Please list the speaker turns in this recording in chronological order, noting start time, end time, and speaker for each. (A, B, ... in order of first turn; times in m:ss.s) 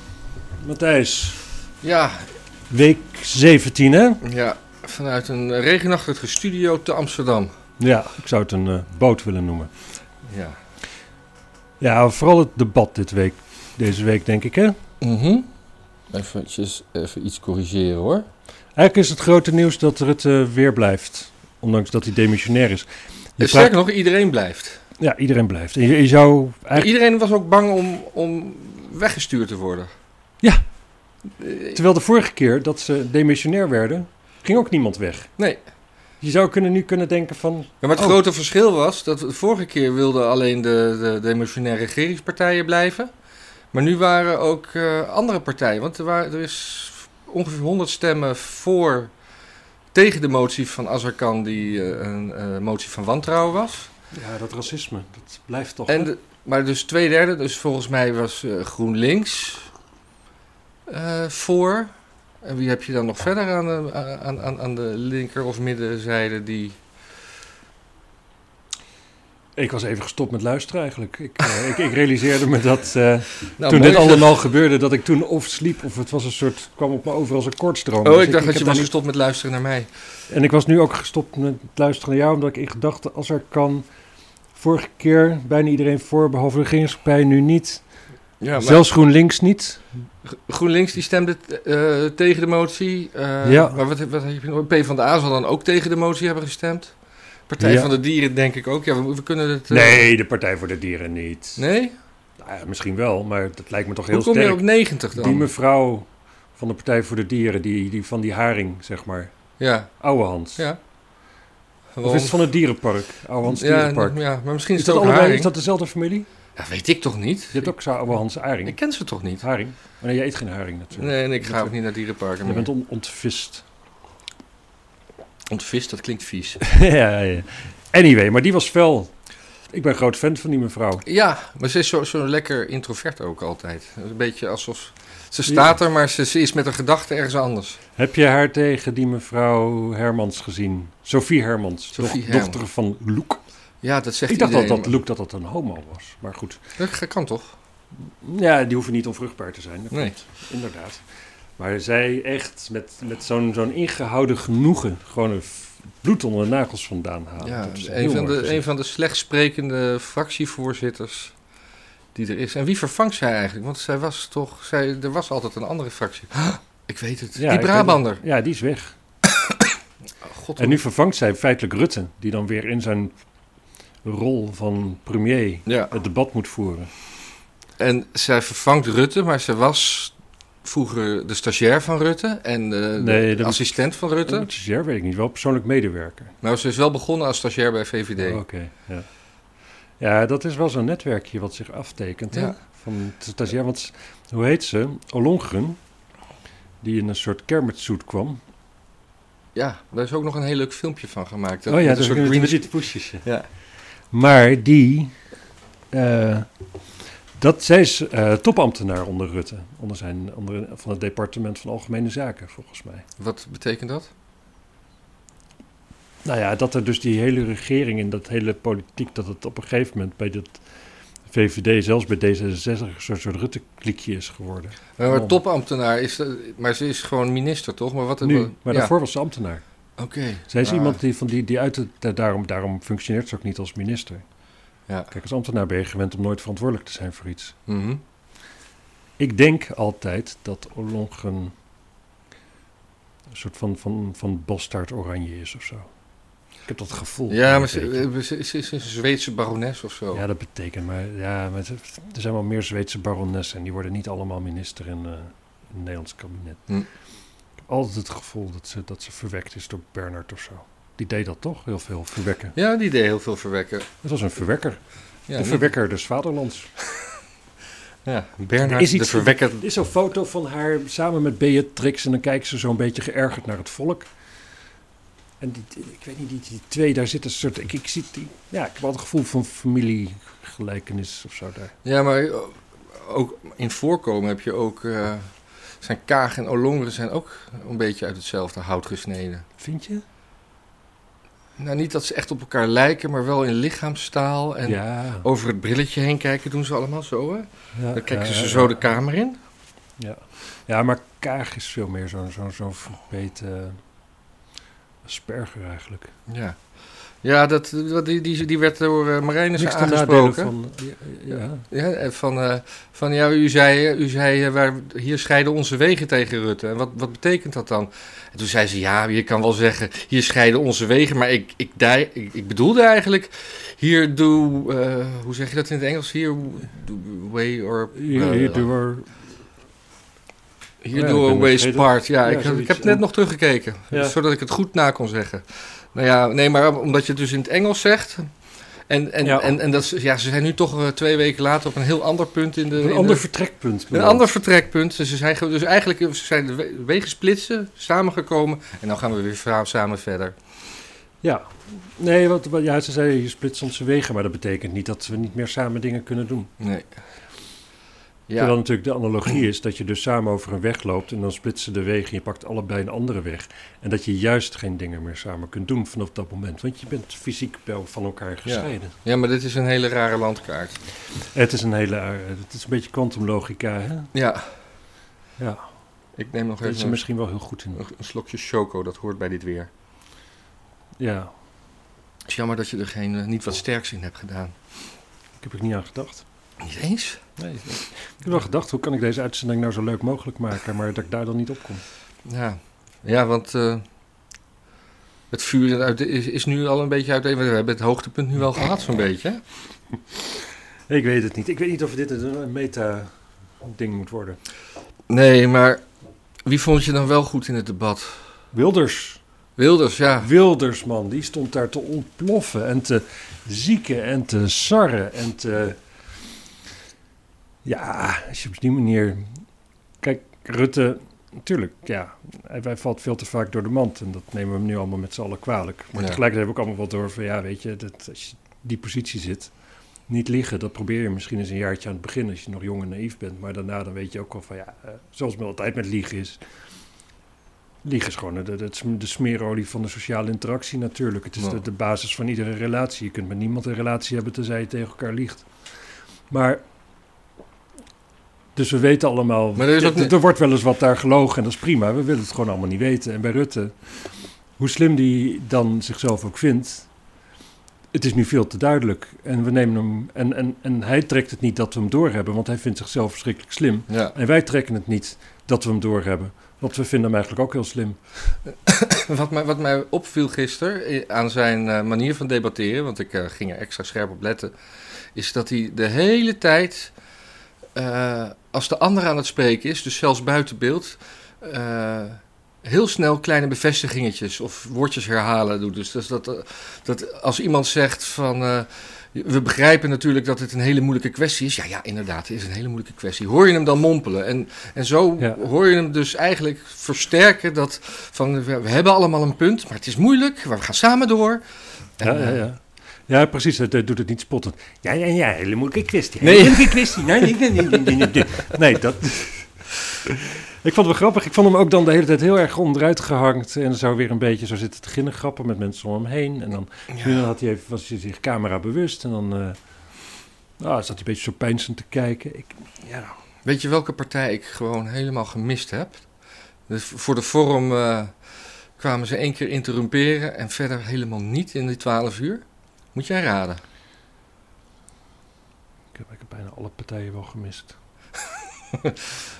0:00.6-0:01.4 A
0:01.8-0:02.3 B
0:02.7-0:04.2 A
0:04.2-0:07.5 B
0:07.8-0:09.7 A
0:10.2-0:10.6 B
0:11.8-0:14.8 A
0:15.0-0:15.5 B
0:16.1-0:18.2 B
0:18.8-0:23.7 A
0:23.4-0:24.8 B
0:25.0-0:26.9 A
0:26.7-0:29.9 B
0:31.4-0:31.8 B
0:31.7-0:35.3 A
0:36.2-0:38.2 A
0:37.8-0:43.1 B
0:43.7-0:49.1 B
0:49.9-0:53.9 B
0:54.1-0:56.1 A
0:55.9-0:59.7 B
1:00.9-1:01.9 B
1:02.4-1:06.8 B
1:09.6-1:18.9 A
1:13.6-1:14.3 B
1:18.0-1:19.9 B
1:20.3-1:23.8 A
1:24.5-1:27.8 A
1:28.4-1:28.8 B
1:28.5-1:29.8 A
1:30.2-1:36.9 B
1:33.4-1:33.8 A
1:37.5-1:40.1 B
1:37.6-1:37.9 A
1:39.7-1:41.6 A
1:41.6-1:41.9 B
1:42.4-1:49.3 A
1:44.1-1:45.5 B
1:49.6-1:49.9 B
1:50.0-1:50.6 A
1:51.9-1:52.4 B
1:52.0-1:54.2 A
1:53.4-1:55.5 B
1:54.7-1:56.3 A
1:56.6-1:57.7 B
1:57.5-1:58.8 A
1:58.6-1:59.4 B
1:59.4-2:01.7 A
2:01.0-2:02.7 B
2:02.4-2:03.6 A
2:05.5-2:06.6 B
2:06.6-2:09.1 A
2:09.7-2:11.0 A
2:11.0-2:17.8 B
2:18.0-2:23.4 A
2:21.9-2:22.6 B
2:23.8-2:24.9 B
2:24.3-2:26.6 A
2:26.8-2:27.5 B
2:28.1-2:31.0 A
2:31.6-2:38.7 A
2:37.4-2:41.3 B
2:42.1-2:48.2 B
2:47.4-2:48.9 A
2:49.2-2:50.8 B
2:50.6-2:53.1 A
2:54.0-2:56.9 A
2:55.6-2:55.9 B
2:57.8-3:04.5 B
3:03.0-3:03.6 A
3:04.2-3:06.3 A
3:06.4-3:08.4 B
3:08.2-3:09.1 A
3:10.0-3:15.8 A
3:16.8-3:18.4 A
3:19.5-3:23.5 B
3:21.7-3:23.2 A
3:24.1-3:25.1 A
3:25.9-3:26.5 A
3:27.4-3:33.1 A
3:33.2-3:34.1 B
3:36.2-3:40.6 A
3:41.3-3:45.4 A
3:45.0-3:48.9 B
3:48.2-3:49.6 A
3:50.0-3:51.0 B
3:50.5-3:54.2 A
3:55.1-3:57.6 A
3:57.7-3:58.0 B
3:59.2-4:01.5 A
4:03.3-4:05.9 A
4:06.6-4:08.0 A
4:07.3-4:10.2 B
4:10.1-4:16.6 A
4:17.7-4:22.6 A
4:22.6-4:23.9 B
4:24.0-4:24.8 A
4:25.3-4:25.7 B
4:25.3-4:26.7 A
4:28.0-4:29.6 B
4:28.6-4:34.1 A
4:35.4-4:41.7 A
4:41.8-4:49.4 B
4:49.6-4:50.0 A
4:51.6-4:59.4 B
4:54.6-4:55.3 A
4:57.8-4:58.8 A
5:00.0-5:03.8 A
5:05.0-5:06.1 A
5:06.3-5:06.6 B
5:07.2-5:10.5 B
5:09.6-5:11.7 A
5:11.7-5:28.7 B
5:27.9-5:29.1 A
5:30.8-5:38.3 B
5:30.9-5:33.0 A
5:38.9-5:43.2 B
5:39.2-5:39.6 A
5:42.8-5:44.3 A
5:43.9-5:50.4 B
5:51.2-5:56.5 A
5:56.6-5:56.9 B
5:58.3-5:58.5 B
5:58.4-6:08.9 A
6:08.4-6:10.8 B
6:11.3-6:14.1 A
6:14.1-6:14.5 B
6:15.4-6:15.6 A
6:16.2-6:17.0 B
6:16.6-6:17.8 A
6:17.8-6:19.7 B
6:21.0-6:21.3 A
6:22.3-6:24.6 B
6:25.4-6:26.2 A
6:26.6-6:27.2 B
6:27.4-6:31.8 A
6:32.2-6:33.8 B
6:35.3-6:39.4 B
6:40.9-6:44.4 A
6:45.1-6:45.8 B
6:46.4-6:48.2 B
6:48.5-6:49.2 A
6:49.6-6:50.3 B
6:50.2-6:55.8 A
6:57.6-6:59.4 A
7:00.0-7:09.5 A
7:10.1-7:16.4 A
7:17.8-7:25.5 A
7:26.3-7:26.6 A
7:28.5-7:34.1 A
7:29.6-7:30.1 B
7:34.6-7:36.9 A
7:37.9-7:48.4 A
7:43.9-7:44.2 B
7:48.6-7:54.5 B
7:55.1-7:56.9 B
7:57.7-8:21.4 B
8:22.0-8:22.4 B
8:22.0-8:39.6 A
8:26.2-8:28.0 B
8:36.9-8:37.2 B
8:40.6-8:43.1 A
8:43.4-8:46.0 B
8:46.7-8:48.1 B
8:48.8-8:52.4 B
8:52.9-8:53.6 B
8:55.9-8:57.8 A
8:58.7-8:59.2 B